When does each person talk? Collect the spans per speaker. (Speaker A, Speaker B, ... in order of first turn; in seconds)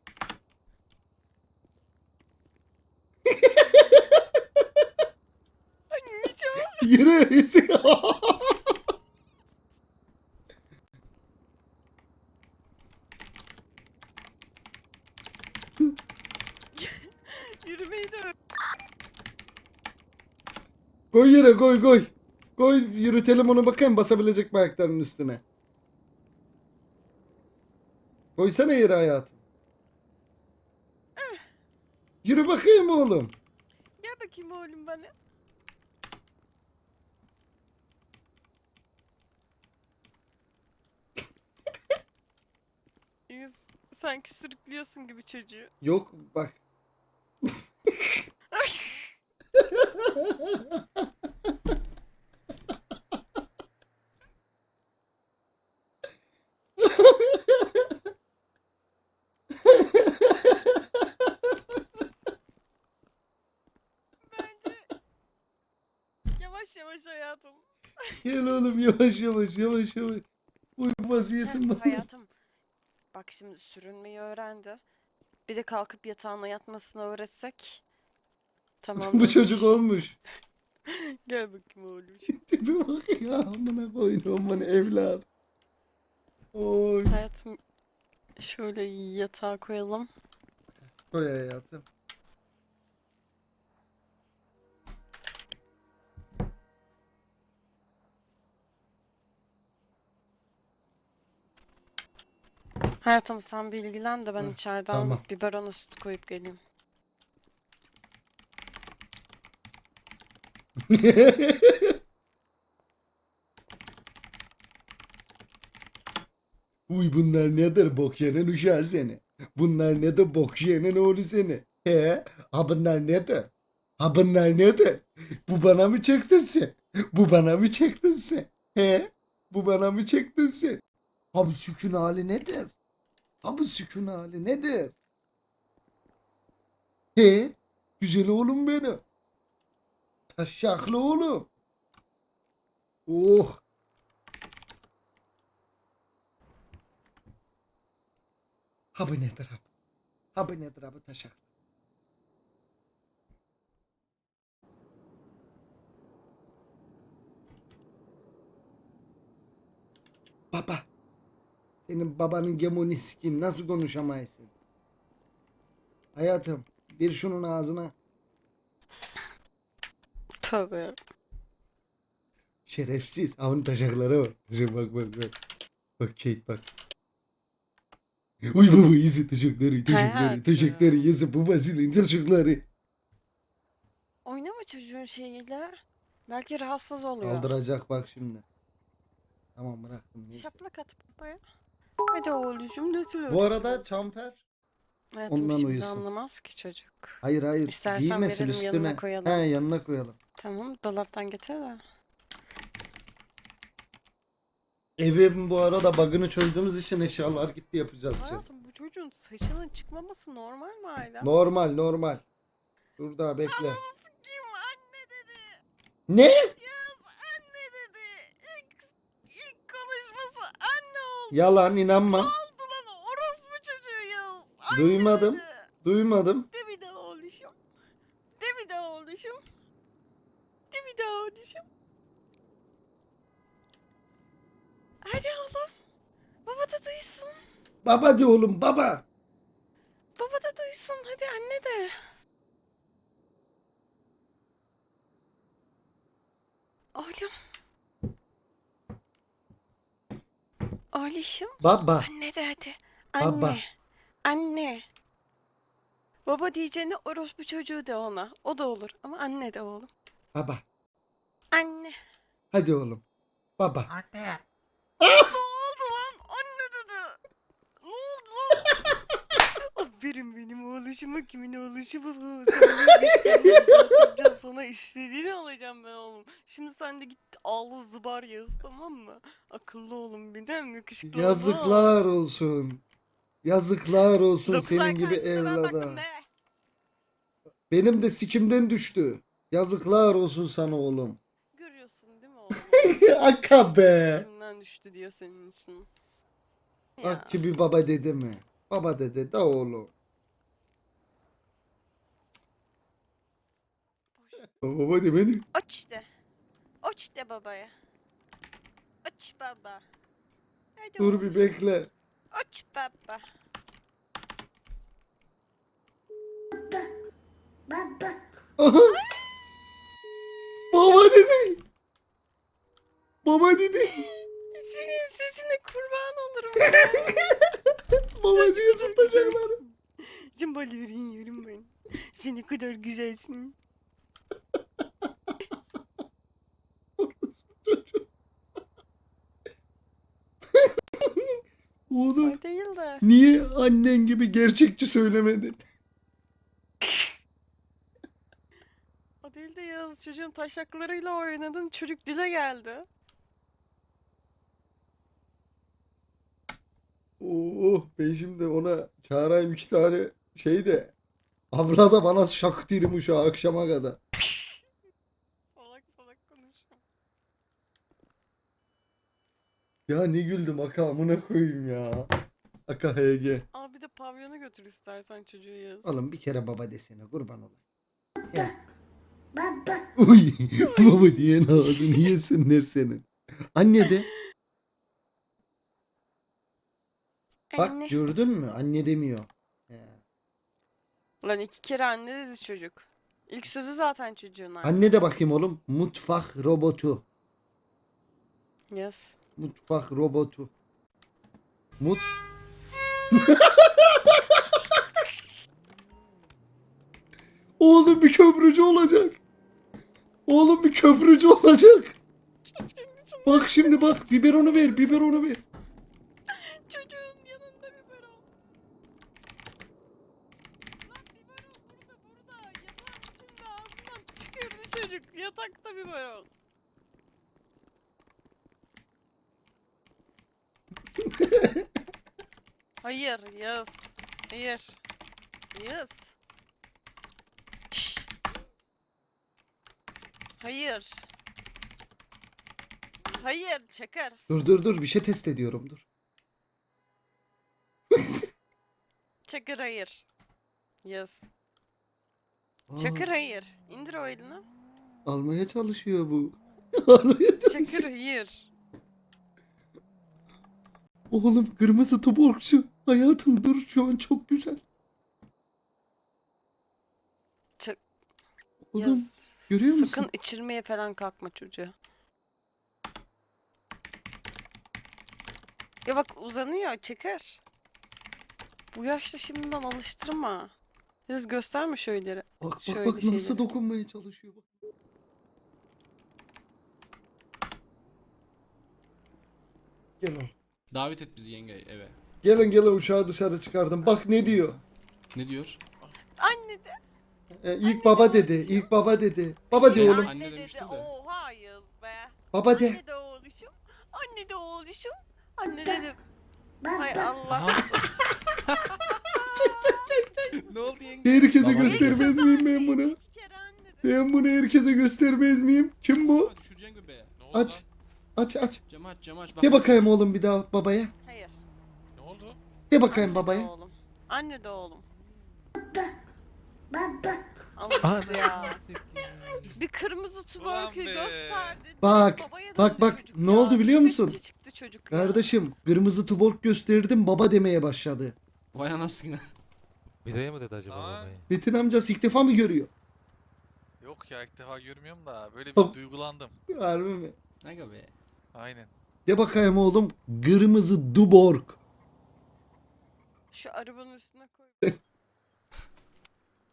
Speaker A: 3.3-4.2, 6.8-8.7, 21.1-25.4, 28.4-29.4, 32.2-33.4, 45.8-46.6, 47.5-48.2, 49.5-50.8, 56.8-57.9, 59.6-60.7, 68.2-70.3, 70.8-72.0, 79.0-80.2, 82.3-85.3, 86.5-87.2, 91.0-91.8, 104.4-105.2, 110.9-112.0, 116.9-130.8, 131.3-132.7, 133.4-134.9, 137.2-139.0, 140.3-141.5, 143.1-143.6, 149.0-149.7, 150.3-151.4, 160.5-160.9, 161.9-164.5, 166.2-167.9, 172.7-175.3, 176.0-176.7, 178.5-182.7, 187.1-188.4, 189.6-190.5, 193.3-194.4, 195.3-196.0, 197.2-200.2, 205.0-208.4, 211.2-212.2, 213.0-213.8, 216.1-216.5, 221.3-222.3, 224.7-226.5, 237.8-239.1, 251.6-252.1, 253.2-253.6, 260.4-260.6, 262.5-263.0, 263.6-263.9, 265.0-265.3, 281.1-282.8, 283.4-286.0, 287.7-291.2, 292.5-294.3, 297.0-299.9, 304.6-305.5, 311.0-311.9, 318.6-319.0, 320.7-321.6, 323.2-324.1, 326.6-327.4, 328.2-329.6, 337.0-338.1, 340.5-341.3, 341.9-342.4, 343.0-345.6, 357.2-360.9, 361.5-364.0, 369.9-372.1, 372.7-373.5, 375.9-377.6, 380.0-384.1, 387.6-390.0, 394.6-397.0, 399.4-400.5, 401.8-402.1, 403.1-404.6, 407.6-409.2, 410.3-412.0, 413.3-415.4, 431.0-431.6, 444.3-445.9, 447.9-448.2, 452.7-453.1, 455.1-457.9, 461.1-464.6, 468.6-470.1, 482.4-484.5, 490.0-490.3, 492.2-494.6, 497.4-500.1, 502.3-502.8, 509.3-510.3, 511.0-513.0, 513.8-516.3, 517.3-517.6, 518.2-518.6, 519.4-520.9, 522.7-523.5, 531.8-534.2, 534.9-538.2, 541.3-542.7, 546.5-547.2, 549.1-551.6
Speaker B: 5.9-6.9, 16.8-18.4, 34.0-35.1, 43.3-45.7, 48.5-49.1, 64.3-64.9, 66.4-68.2, 71.4-72.3, 73.1-74.8, 75.5-77.8, 78.8-79.8, 80.9-82.3, 87.1-87.6, 88.4-90.1, 103.0-106.6, 170.4-171.0, 179.9-181.1, 184.2-185.7, 186.3-187.5, 190.3-191.4, 192.1-193.8, 195.2-199.5, 200.4-201.8, 208.2-211.3, 213.5-215.6, 216.6-221.5, 222.1-225.7, 226.5-227.6, 228.4-229.4, 230.7-231.6, 235.0-235.7, 236.5-237.3, 240.2-241.9, 246.9-247.3, 250.9-253.6, 254.2-254.8, 256.3-259.9, 261.5-261.9, 265.1-267.2, 267.8-268.8, 269.7-281.9, 284.5-286.3, 291.5-293.2, 294.0-295.9, 297.0-297.4, 304.2-304.5, 305.5-306.1, 306.8-307.7, 309.0-309.8, 310.8-311.6, 312.3-313.2, 323.9-327.4, 328.3-333.6, 342.2-343.0, 349.2-352.9, 365.5-366.8, 373.5-375.9, 380.6-382.1, 387.5-388.0, 391.2-394.8, 398.7-399.2, 412.5-414.9, 416.3-418.2, 420.9-426.3, 432.8-434.8, 435.5-436.2, 437.7-438.1, 440.4-441.1, 443.2-444.3, 449.3-450.1, 450.8-451.3, 452.8-454.4, 457.5-458.5, 468.8-471.7, 475.9-477.4, 478.7-480.5, 481.1-483.4, 496.2-496.7, 497.6-498.7, 499.5-506.0, 506.8-507.9, 508.8-514.1, 521.0-521.4, 522.9-524.9, 527.6-528.6, 529.5-535.4, 553.3-554.6
Speaker C: 490.7-492.0, 495.1-495.6, 499.6-500.9, 507.3-507.8, 510.5-512.0, 516.0-517.1, 518.7-519.9, 538.5-539.3, 547.4-547.9
Speaker D: 511.4-511.9, 527.9-529.1, 540.0-541.2
Speaker E: 517.2-517.6, 522.0-522.4, 530.4-531.6, 540.7-541.2, 543.8-546.4, 548.3-548.7